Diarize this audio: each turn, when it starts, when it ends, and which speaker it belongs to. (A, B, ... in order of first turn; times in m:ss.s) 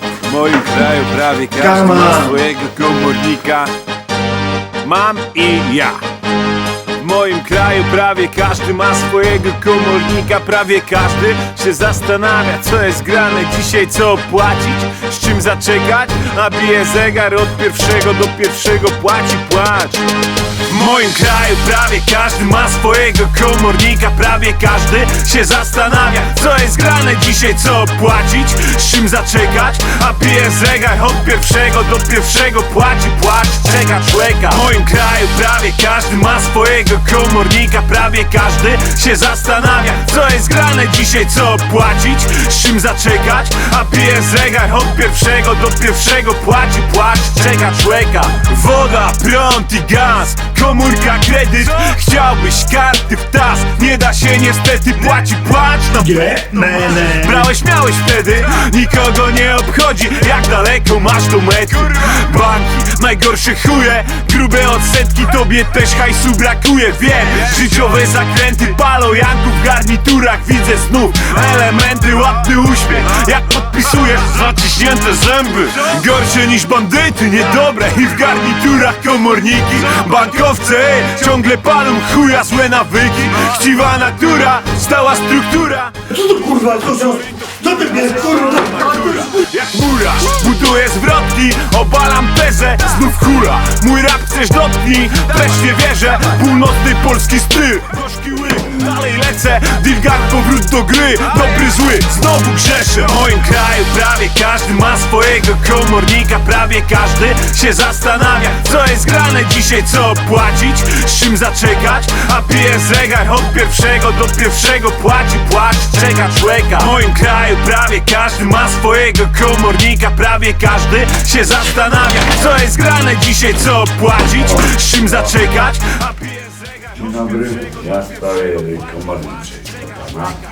0:00.2-0:03.7 A
0:01.6-0:02.4 B
0:04.8-0:06.0 A
0:07.0-0:20.1 A
0:20.7-1:26.0 A
0:56.0-0:57.5 B
1:26.1-1:29.2 B
1:28.0-2:07.0 A
2:04.4-2:05.3 C
2:07.0-2:10.4 C